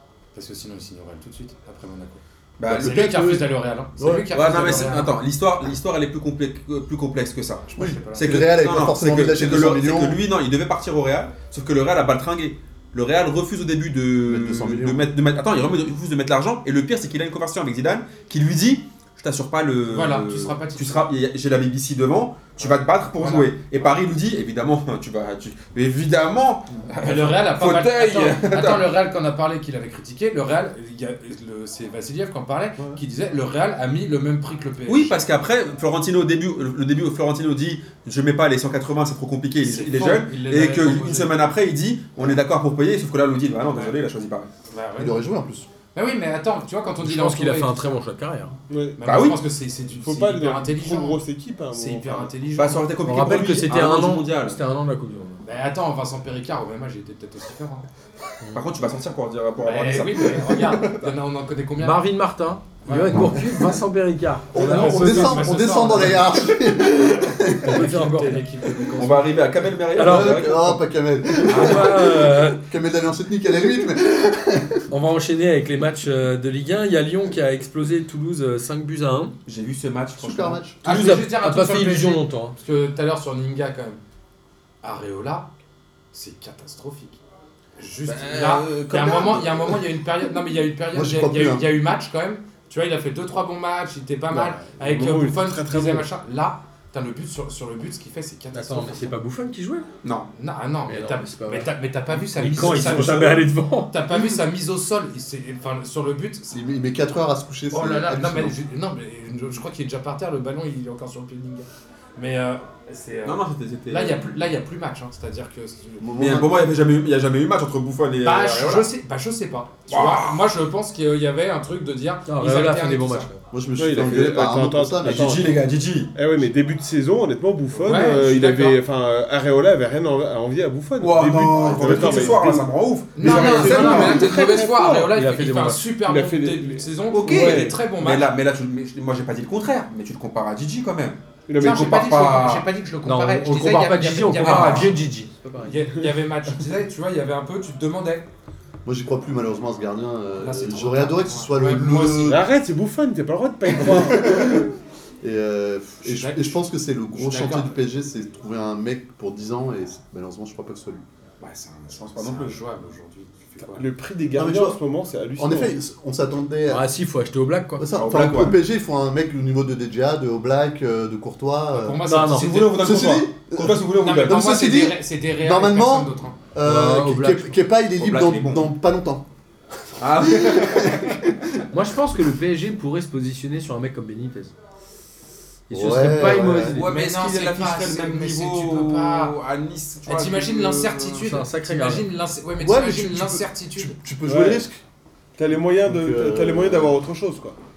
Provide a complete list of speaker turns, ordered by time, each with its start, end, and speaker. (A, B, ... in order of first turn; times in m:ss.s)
0:00.3-0:05.1 A
0:02.6-0:03.0 B
0:02.6-0:04.9 C
0:04.3-0:28.9 B
0:07.7-0:08.4 A
0:07.8-0:10.2 C
0:14.2-0:15.1 C
0:19.9-0:21.1 A
0:22.6-0:23.5 A
0:27.0-0:35.2 A
0:34.8-0:44.5 B
0:39.6-0:41.4 A
0:43.6-0:44.0 A
0:44.7-0:45.2 A
0:45.0-0:45.7 C
0:45.9-0:48.0 A
0:47.0-0:48.5 D
0:48.7-0:49.2 E
0:49.0-0:51.2 A
0:49.0-0:49.4 B
0:49.9-0:52.3 E
0:51.7-0:52.9 A
0:52.6-0:54.6 B
0:53.0-0:55.4 D
0:55.4-0:57.9 A
0:58.5-1:01.0 B
0:59.6-1:02.0 A
1:01.8-1:05.5 D
1:02.8-1:03.4 A
1:03.1-1:03.6 C
1:04.5-1:07.9 C
1:04.5-1:06.6 A
1:07.4-1:09.4 A
1:07.6-1:08.4 D
1:08.9-1:10.8 B
1:09.9-1:10.4 D
1:10.0-1:14.8 C
1:11.4-1:12.6 D
1:11.5-1:11.9 A
1:14.9-1:19.4 D
1:19.4-1:20.6 B
1:20.2-1:20.8 C
1:20.8-1:22.5 D
1:20.8-1:24.0 A
1:24.8-1:25.5 A
1:26.1-1:27.2 A
1:27.8-1:39.1 A
1:28.0-1:29.8 B
1:30.9-1:31.6 C
1:34.3-1:36.1 E
1:38.5-1:39.9 D
1:40.0-1:40.3 B
1:40.3-1:46.6 A
1:40.9-1:41.7 D
1:42.4-1:43.9 D
1:46.5-1:48.5 C
1:47.7-1:56.3 A
1:53.2-1:54.3 B
1:56.0-1:56.6 C
1:56.2-1:58.9 B
1:58.2-2:03.4 A
1:59.9-2:00.4 B
2:02.2-2:03.3 D
2:03.5-2:05.5 C
2:03.8-2:05.6 E
2:05.0-2:06.1 B
2:06.1-2:12.7 E
2:07.8-2:08.8 A
2:11.0-2:14.5 B
2:11.6-2:12.5 C
2:13.1-2:18.3 A
2:13.2-2:14.3 C
2:13.6-2:15.1 E
2:15.1-2:15.8 D
2:16.0-2:17.8 E
2:17.1-2:22.7 B
2:17.3-2:17.6 D
2:21.5-2:21.9 E
2:21.6-2:25.0 A
2:23.0-2:25.8 D
2:24.4-2:24.9 B
2:25.6-2:28.3 A
2:28.8-2:32.4 C
2:30.4-2:32.4 A
2:32.2-2:34.6 E
2:33.7-2:41.0 C
2:36.0-2:36.6 A
2:37.1-2:37.8 A
2:41.4-2:43.8 A
2:41.9-2:42.6 B
2:43.6-2:45.8 E
2:44.3-2:44.8 C
2:45.4-2:46.8 C
2:46.7-2:47.8 D
2:47.8-2:52.0 C
2:47.9-2:48.6 B
2:51.7-2:52.9 A
2:52.0-2:52.7 D
2:52.3-2:54.4 B
2:52.8-2:59.2 C
2:54.0-2:56.4 A
2:56.6-2:57.6 D
2:58.0-2:58.7 B
3:00.0-3:01.2 B
3:00.0-3:01.5 C
3:01.7-3:04.5 D
3:05.7-3:06.9 D
3:05.7-3:06.8 C
3:06.7-3:11.3 B
3:06.8-3:09.4 A
3:10.0-3:14.0 A
3:11.2-3:12.1 D
3:12.6-3:14.8 C
3:14.2-3:14.6 E
3:15.4-3:17.6 E
3:15.8-3:17.0 C